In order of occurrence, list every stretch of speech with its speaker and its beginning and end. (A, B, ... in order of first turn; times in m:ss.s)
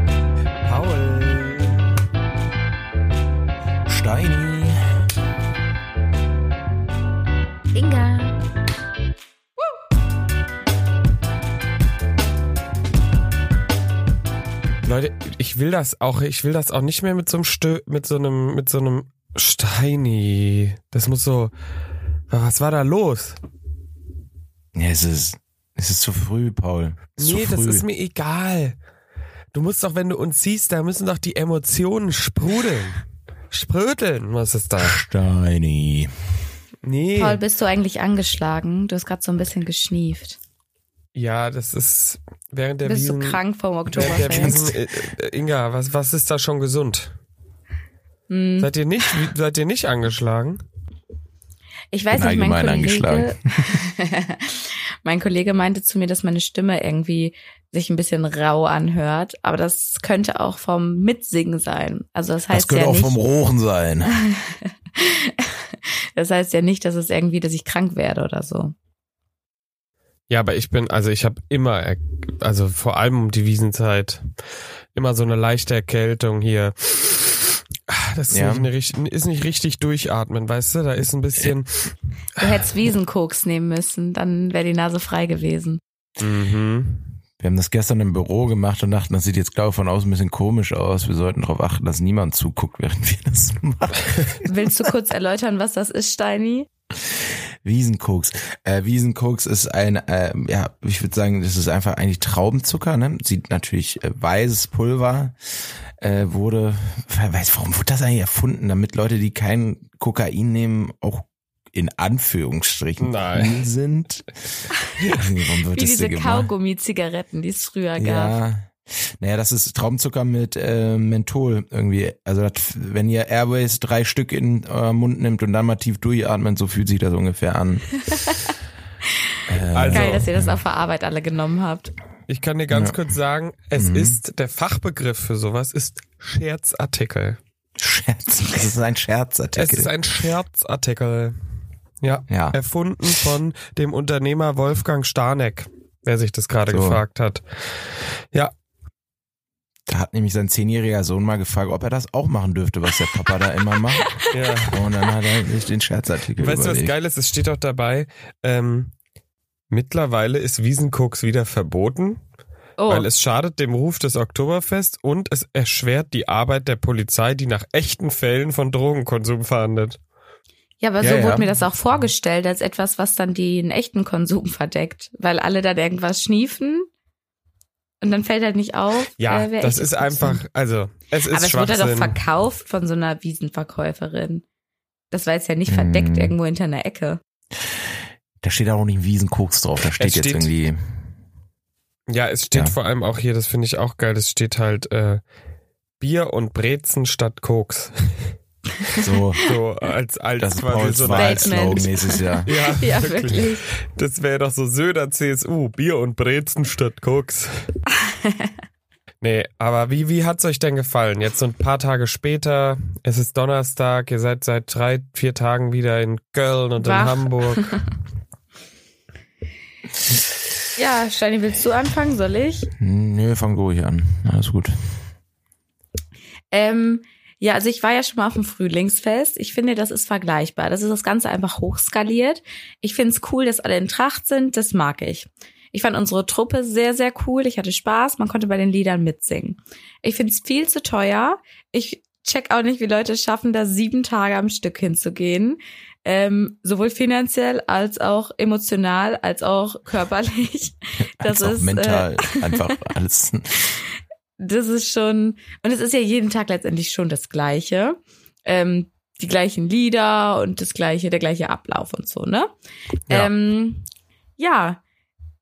0:00.6-0:01.9 A
0:03.9-0:04.8 B
0:07.7-0:08.4 C
0:14.8-0:21.5 A
0:22.3-0:23.4 A
0:24.7-0:27.8 B
0:27.2-0:28.8 A
0:29.5-0:35.0 A
0:34.8-0:36.1 B
0:36.8-0:37.4 A
0:37.2-0:40.4 C
0:41.2-0:43.4 A
0:42.8-0:44.6 C
0:43.9-0:47.1 A
0:43.9-0:44.8 B
0:48.3-0:49.1 C
0:48.6-0:50.6 A
0:51.9-1:03.2 C
0:52.1-0:53.8 B
1:02.5-1:04.1 B
1:04.1-1:05.6 C
1:06.2-1:08.7 C
1:10.3-1:14.3 A
1:14.9-1:21.9 A
1:18.3-1:18.7 B
1:22.4-1:25.8 C
1:26.2-1:27.1 A
1:27.4-1:34.4 B
1:34.4-1:36.7 C
1:37.1-1:45.4 B
1:46.0-1:56.5 B
1:53.0-1:53.6 A
1:55.7-1:58.4 C
1:58.0-2:07.9 B
2:09.5-2:10.6 B
2:09.7-2:10.3 A
2:09.9-2:11.9 C
2:12.3-2:17.4 A
2:12.7-2:13.0 B
2:13.8-2:14.2 B
2:17.8-2:19.9 B
2:19.6-2:21.4 A
2:22.0-2:28.5 A
2:22.3-2:22.6 B
2:26.7-2:27.0 B
2:29.9-2:34.1 B
2:33.9-2:34.3 C
2:34.3-2:34.8 A
2:34.7-2:36.9 B
2:36.4-2:38.9 A
2:39.7-2:42.2 A
2:42.8-2:43.1 C
2:42.9-2:50.0 A
2:50.8-2:56.9 C
2:51.0-2:51.5 B
2:58.0-3:00.4 C
2:59.2-3:02.2 A
3:01.3-3:04.4 C
3:05.1-3:07.2 C
3:05.7-3:06.4 B
3:08.4-3:10.8 B
3:10.0-3:10.5 A
3:12.1-3:15.2 A
3:16.0-3:18.3 A
3:18.9-3:21.8 A
3:19.0-3:19.4 B
3:20.4-3:22.5 B
3:21.1-3:23.6 C
3:22.4-3:27.5 A
3:28.1-3:28.5 C
3:29.2-3:37.7 A
3:36.8-3:37.8 C
3:40.8-3:42.7 C
3:42.8-3:44.7 B
3:46.5-4:12.8 C
4:11.0-4:13.6 B
4:14.4-4:22.5 C
4:23.1-4:23.8 C
4:24.4-4:24.8 C